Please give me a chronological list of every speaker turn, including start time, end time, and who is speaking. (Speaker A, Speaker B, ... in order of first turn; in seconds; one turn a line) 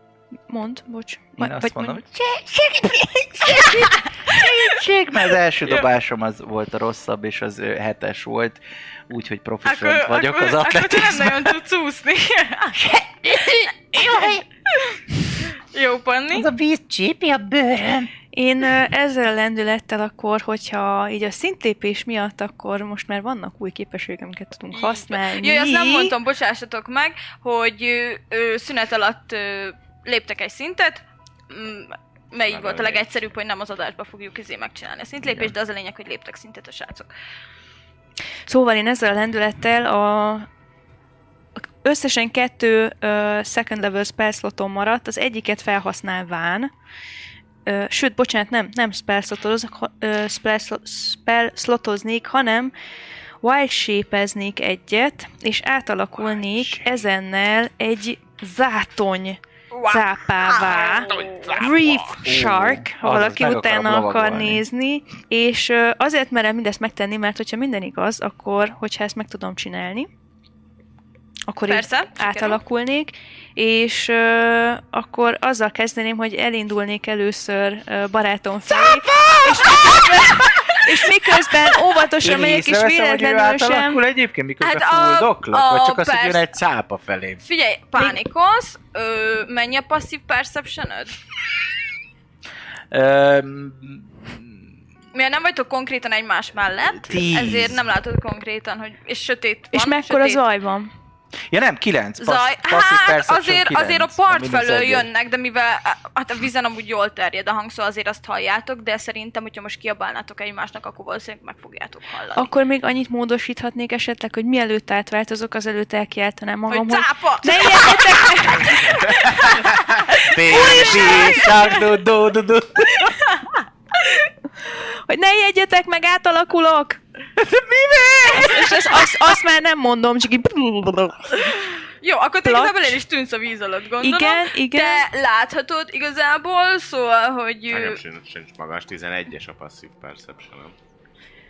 Speaker A: 0.5-2.0
Speaker B: 1.4-11.6
Speaker C: 9.6-12.8
Speaker B: 12.7-14.4
Speaker C: 13.3-16.5
Speaker B: 16.3-18.1
Speaker A: 18.3-26.1
Speaker C: 24.7-37.1
Speaker D: 32.5-33.1
Speaker B: 35.2-35.5
Speaker A: 38.5-40.5
Speaker A: 41.8-46.7
Speaker A: 47.6-52.7
Speaker A: 53.4-70.1
Speaker D: 56.2-56.9
Speaker C: 59.7-61.7
Speaker D: 60.7-62.2
Speaker B: 62.2-64.6
Speaker A: 71.5-84.0
Speaker C: 71.6-72.6
Speaker B: 79.5-79.8
Speaker B: 82.2-87.4
Speaker C: 84.6-86.5
Speaker C: 87.4-91.1
Speaker B: 92.9-94.6
Speaker C: 95.1-100.4
Speaker B: 97.0-97.8
Speaker A: 99.7-100.9
Speaker B: 101.5-105.1
Speaker C: 102.2-112.5
Speaker A: 112.3-119.8
Speaker C: 116.7-118.3
Speaker C: 119.1-119.6
Speaker C: 120.1-121.7
Speaker B: 120.3-123.2
Speaker A: 120.5-121.6
Speaker D: 120.5-120.9
Speaker A: 124.6-127.0
Speaker B: 127.3-129.1
Speaker A: 128.3-131.6
Speaker C: 132.0-138.0
Speaker A: 132.4-133.0
Speaker A: 134.0-135.1
Speaker D: 137.7-140.7